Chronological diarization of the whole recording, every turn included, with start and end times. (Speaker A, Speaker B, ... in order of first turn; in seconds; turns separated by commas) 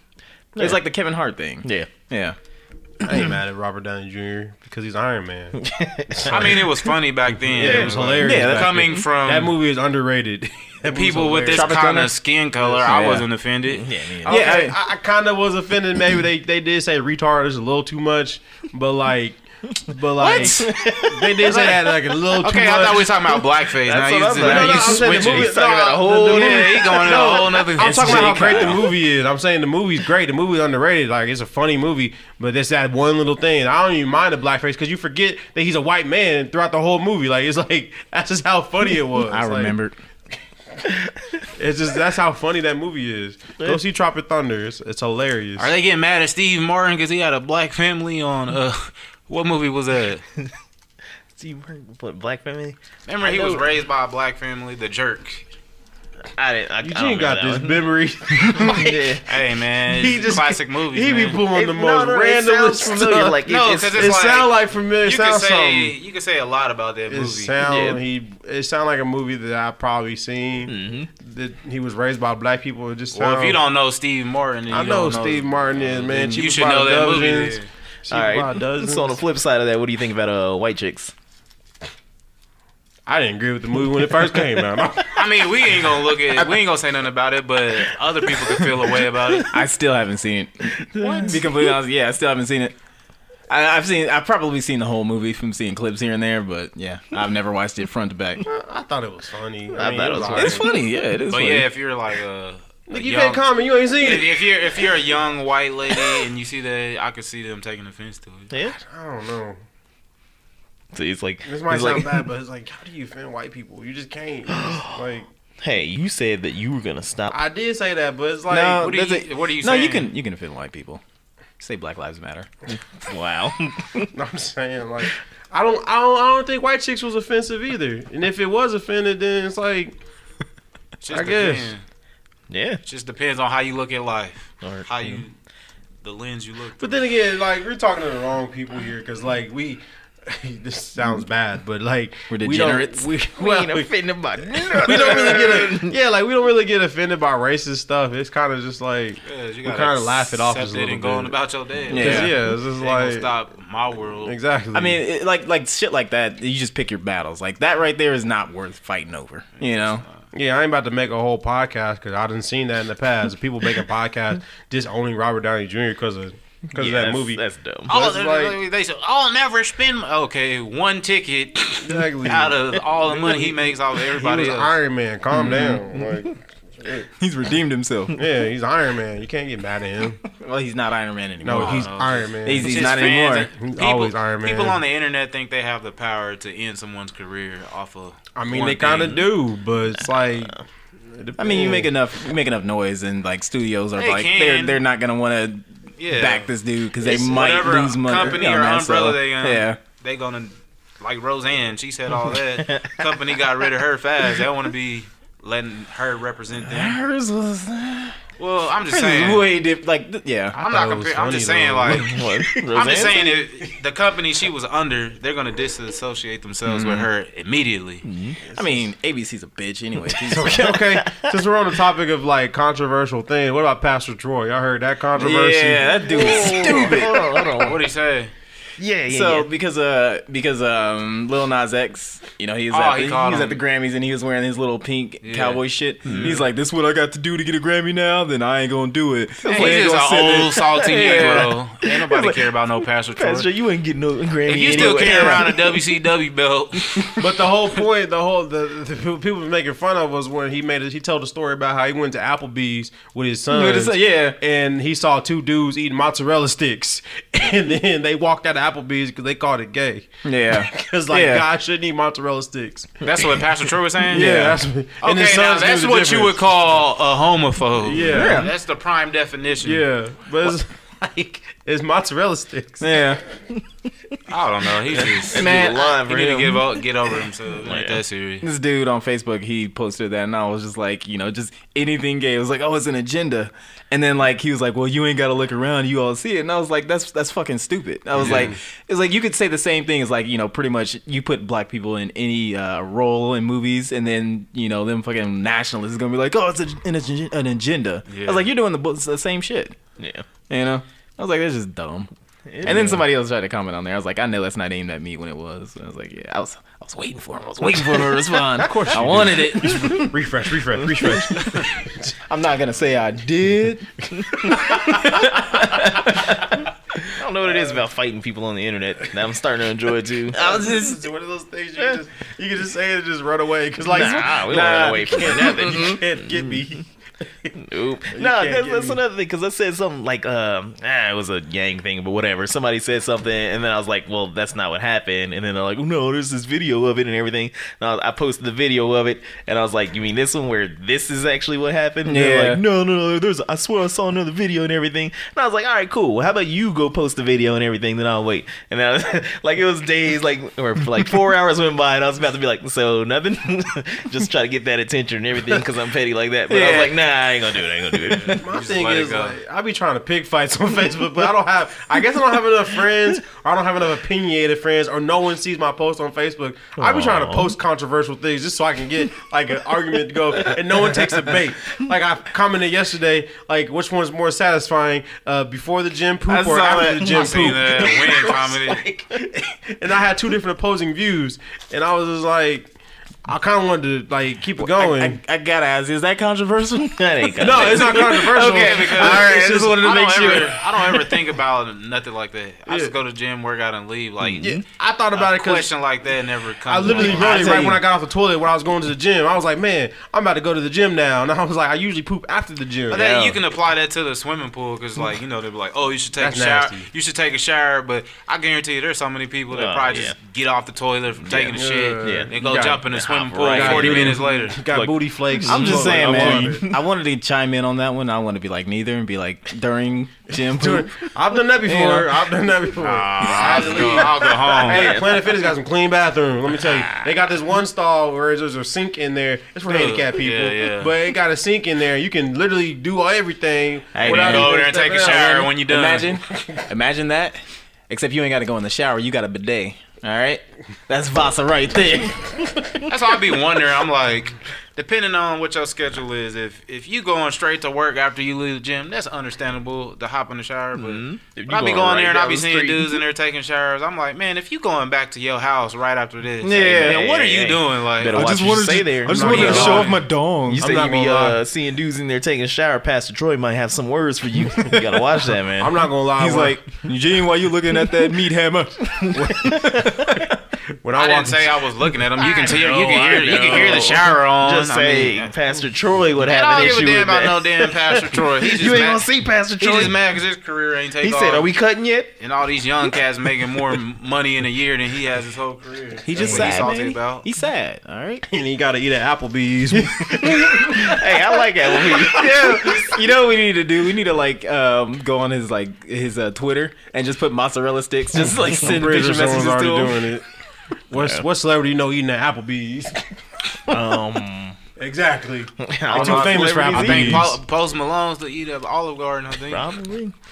Speaker A: 0.5-0.8, Speaker B: 0.6-2.4, Speaker A: 1.6-1.9, Speaker C: 3.0-6.6, Speaker A: 5.5-6.7, Speaker D: 6.3-9.5, Speaker C: 7.5-11.8, Speaker A: 7.5-8.2, Speaker B: 8.2-9.0, Speaker D: 10.9-13.8, Speaker B: 11.5-12.2, Speaker C: 12.6-12.9, Speaker B: 12.8-13.3, Speaker A: 13.7-14.6, Speaker C: 14.2-23.1, Speaker B: 14.2-14.8, Speaker A: 20.1-21.9, Speaker D: 22.4-28.9, Speaker A: 23.2-28.9, Speaker C: 24.4-39.7, Speaker B: 39.3-39.9, Speaker C: 41.5-45.7, Speaker D: 45.6-50.2, Speaker A: 51.3-53.6, Speaker D: 53.0-55.4, Speaker A: 56.3-57.8, Speaker C: 56.8-59.2, Speaker A: 58.4-59.2, Speaker D: 59.2-61.4, Speaker C: 59.9-63.4, Speaker A: 61.5-64.1, Speaker D: 63.5-67.5, Speaker C: 63.9-65.9, Speaker C: 67.1-73.6, Speaker A: 67.6-68.0, Speaker A: 70.7-71.1, Speaker D: 73.1-77.7, Speaker C: 74.7-79.2, Speaker A: 78.1-81.1, Speaker C: 83.1-85.2, Speaker D: 85.1-89.6, Speaker B: 89.5-92.7, Speaker A: 90.8-91.8, Speaker B: 93.5-98.4, Speaker C: 98.4-100.7, Speaker A: 99.7-100.8, Speaker B: 100.3-101.7, Speaker D: 101.3-103.4, Speaker C: 102.9-104.5, Speaker D: 104.0-108.5, Speaker A: 108.5-108.8, Speaker C: 108.8-109.6, Speaker A: 110.9-112.3, Speaker C: 111.5-115.3, Speaker A: 114.5-115.0, Speaker A: 115.6-117.4, Speaker C: 117.3-118.9, Speaker B: 118.5-121.0, Speaker D: 118.7-120.1, Speaker B: 121.6-122.5, Speaker A: 122.9-124.1, Speaker C: 124.1-129.9, Speaker D: 131.0-131.8, Speaker C: 131.1-131.7, Speaker A: 132.5-132.8, Speaker D: 132.8-135.3, Speaker A: 134.6-135.2, Speaker D: 136.0-137.1, Speaker C: 136.8-143.9, Speaker B: 142.3-143.1, Speaker A: 143.4-145.9, Speaker C: 144.5-151.3, Speaker D: 149.2-154.3, Speaker B: 151.9-152.3, Speaker C: 151.9-153.3, Speaker C: 154.2-155.0, Speaker B: 154.7-160.0, Speaker C: 160.3-168.6, Speaker A: 166.8-167.9, Speaker D: 167.9-174.7, Speaker C: 171.7-177.1, Speaker B: 175.3-175.8, Speaker B: 177.2-178.2, Speaker C: 178.1-180.2, Speaker B: 180.3-181.9, Speaker C: 181.4-182.9, Speaker D: 181.5-189.3, Speaker B: 182.4-183.5, Speaker C: 183.6-184.8, Speaker C: 188.3-191.9, Speaker A: 190.0-190.6, Speaker B: 191.4-199.8, Speaker D: 194.0-194.8, Speaker D: 196.0-196.5, Speaker D: 197.0-207.0, Speaker A: 202.6-203.1, Speaker B: 206.6-208.2, Speaker D: 208.4-209.5, Speaker B: 208.9-210.6, Speaker C: 210.5-212.1, Speaker D: 210.6-218.0, Speaker A: 211.9-213.4, Speaker B: 216.6-217.1, Speaker A: 218.0-218.4, Speaker C: 218.5-218.8, Speaker B: 218.5-220.7, Speaker C: 220.2-226.9, Speaker A: 220.3-221.4, Speaker B: 225.2-227.6, Speaker A: 226.1-227.8, Speaker D: 227.6-228.3, Speaker A: 228.8-229.5, Speaker B: 229.1-241.5, Speaker D: 232.7-233.6, Speaker D: 235.2-235.6, Speaker A: 236.0-236.4, Speaker A: 239.4-242.5, Speaker D: 239.5-243.5, Speaker A: 243.1-245.9, Speaker D: 244.5-247.2, Speaker B: 244.7-245.5, Speaker C: 247.2-263.4, Speaker B: 253.5-254.4, Speaker B: 260.2-261.4, Speaker D: 263.0-264.3, Speaker C: 264.1-266.4, Speaker B: 264.1-264.6, Speaker D: 265.0-269.9, Speaker C: 267.8-268.5, Speaker B: 267.9-268.5, Speaker C: 269.6-273.0, Speaker B: 272.8-273.2, Speaker D: 274.3-278.4, Speaker A: 274.9-276.8, Speaker B: 275.3-276.6, Speaker A: 277.6-278.0, Speaker B: 278.4-299.8, Speaker C: 288.1-288.5, Speaker D: 288.2-288.5, Speaker D: 298.1-298.5, Speaker A: 300.0-300.2, Speaker B: 300.5-302.1, Speaker A: 302.5-303.1, Speaker B: 302.6-310.2, Speaker C: 302.6-303.0, Speaker C: 308.5-312.1, Speaker B: 311.0-311.6, Speaker B: 312.2-316.5, Speaker A: 314.1-314.9, Speaker A: 317.1-320.5, Speaker C: 317.4-317.8, Speaker C: 320.3-326.9, Speaker B: 320.4-321.0, Speaker A: 323.9-326.8, Speaker B: 324.0-325.2, Speaker A: 327.5-358.4, Speaker C: 328.1-329.0, Speaker B: 342.0-342.6, Speaker B: 356.5-357.0, Speaker D: 358.1-359.4, Speaker C: 358.3-382.7, Speaker A: 366.8-367.5, Speaker B: 376.3-377.6, Speaker D: 377.0-378.8, Speaker C: 383.2-385.2, Speaker B: 384.6-387.7, Speaker A: 386.9-389.1, Speaker C: 387.4-390.7, Speaker D: 388.2-394.6, Speaker B: 389.0-390.5, Speaker C: 392.7-392.9, Speaker A: 394.2-394.6, Speaker C: 394.6-395.7, Speaker D: 395.1-397.6, Speaker C: 396.6-403.3, Speaker B: 396.9-397.8, Speaker D: 402.9-414.6, Speaker C: 406.2-406.9, Speaker A: 409.5-410.1, Speaker A: 411.2-412.3, Speaker C: 411.5-412.8, Speaker A: 412.9-416.8, Speaker C: 413.4-416.6, Speaker B: 413.4-414.0, Speaker B: 415.4-421.0, Speaker C: 420.4-435.5, Speaker B: 421.6-422.1, Speaker D: 422.8-424.9, Speaker A: 423.3-425.5, Speaker A: 426.6-427.1, Speaker D: 429.6-430.9, Speaker B: 433.9-437.4, Speaker D: 434.0-436.1, Speaker B: 437.9-442.9, Speaker D: 442.9-458.3, Speaker A: 450.7-453.0, Speaker B: 456.4-457.2, Speaker A: 456.8-459.8, Speaker B: 458.1-460.7, Speaker C: 459.1-461.4, Speaker D: 459.1-460.0, Speaker A: 460.5-465.7, Speaker C: 465.6-466.6, Speaker B: 466.2-470.3, Speaker C: 469.1-470.0, Speaker C: 470.8-471.6, Speaker D: 471.0-475.3, Speaker A: 472.2-480.0, Speaker D: 476.2-479.1, Speaker D: 479.6-481.5, Speaker A: 481.0-482.1, Speaker D: 482.2-487.2, Speaker B: 486.1-488.2, Speaker A: 486.1-487.1, Speaker C: 488.3-490.9, Speaker B: 490.0-500.0, Speaker A: 490.2-492.6, Speaker C: 498.4-500.2, Speaker C: 500.9-503.1, Speaker A: 500.9-501.2, Speaker A: 503.7-504.6, Speaker C: 504.8-507.4, Speaker A: 505.6-507.3, Speaker D: 505.9-509.7, Speaker A: 509.5-510.1